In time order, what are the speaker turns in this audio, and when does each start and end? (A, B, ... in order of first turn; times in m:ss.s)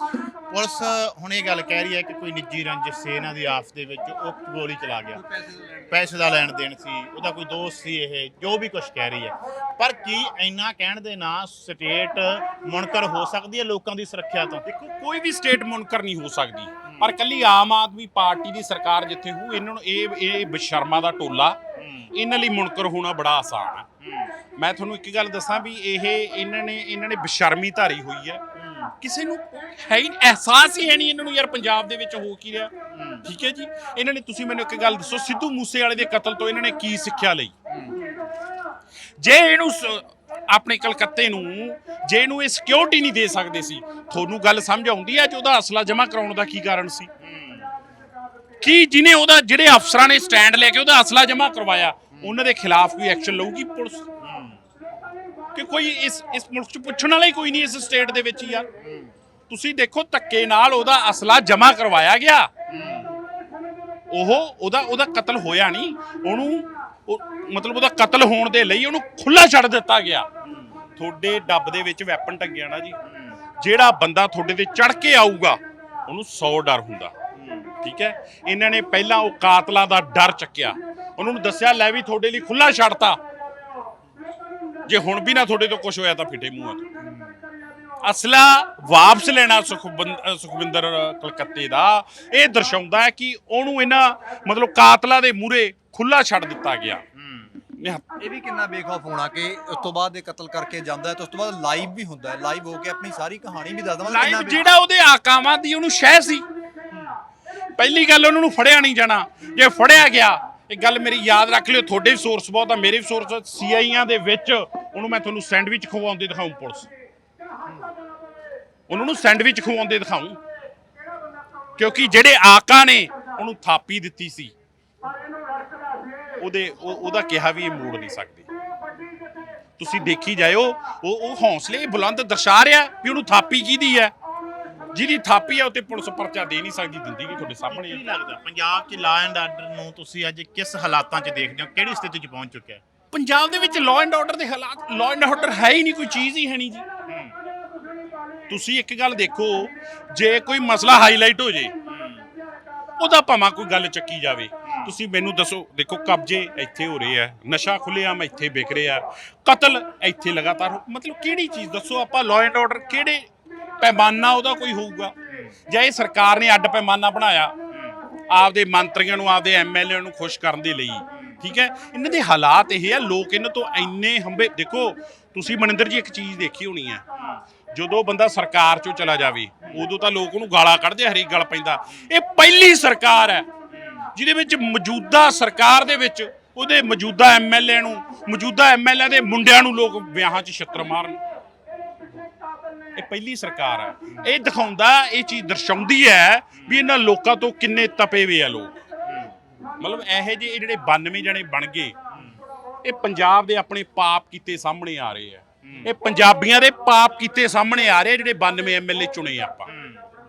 0:00.5-0:05.2 A
0:05.1-0:06.0 B
0:05.9-0:14.6 A
0:14.6-0:21.6 C
0:16.9-0:17.2 A
0:21.8-0:22.1 A
0:22.1-0:23.8 C
0:24.0-0:24.3 A
0:24.6-0:28.4 C
0:28.6-0:28.9 A
0:29.0-0:32.7 C
0:32.9-0:33.3 A
0:33.2-0:37.5 C
0:39.2-0:47.1 C
0:47.2-0:47.7 A
0:48.6-0:54.0 C
0:54.2-0:54.6 A
0:55.5-0:58.7 C
0:58.8-0:59.1 A
0:59.5-1:02.5 C
1:02.7-1:03.1 A
1:04.1-1:10.3 C
1:10.4-1:10.7 A
1:11.0-1:13.0 C
1:13.0-1:13.4 A
1:13.6-1:17.1 C
1:17.4-1:17.7 A
1:17.8-1:23.2 C
1:24.9-1:26.8 C
1:28.0-1:37.0 C
1:37.2-1:37.6 A
1:37.8-1:38.0 C
1:38.2-1:44.6 B
1:44.0-1:46.4 C
1:47.8-1:56.9 C
1:58.9-2:00.4 C
2:01.8-2:04.5 C
2:06.4-2:08.5 C
2:09.8-2:14.1 C
2:14.9-2:18.0 C
2:17.7-2:22.8 A
2:23.1-2:26.8 C
2:27.1-2:27.3 A
2:28.5-2:31.7 C
2:31.9-2:32.3 A
2:33.0-2:43.3 C
2:34.6-2:34.9 A
2:43.8-2:45.1 C
2:45.3-2:45.5 A
2:45.7-2:47.5 C
2:47.7-2:48.0 A
2:48.3-2:57.0 C
2:51.1-2:51.4 A
2:57.2-2:57.4 A
2:57.7-3:03.5 C
3:03.7-3:04.1 A
3:04.1-3:11.2 C
3:12.9-3:18.8 C
3:19.1-3:19.3 A
3:19.8-3:21.9 C
3:22.1-3:22.4 A
3:22.8-3:29.7 C
3:25.6-3:25.9 A
3:29.7-3:30.0 A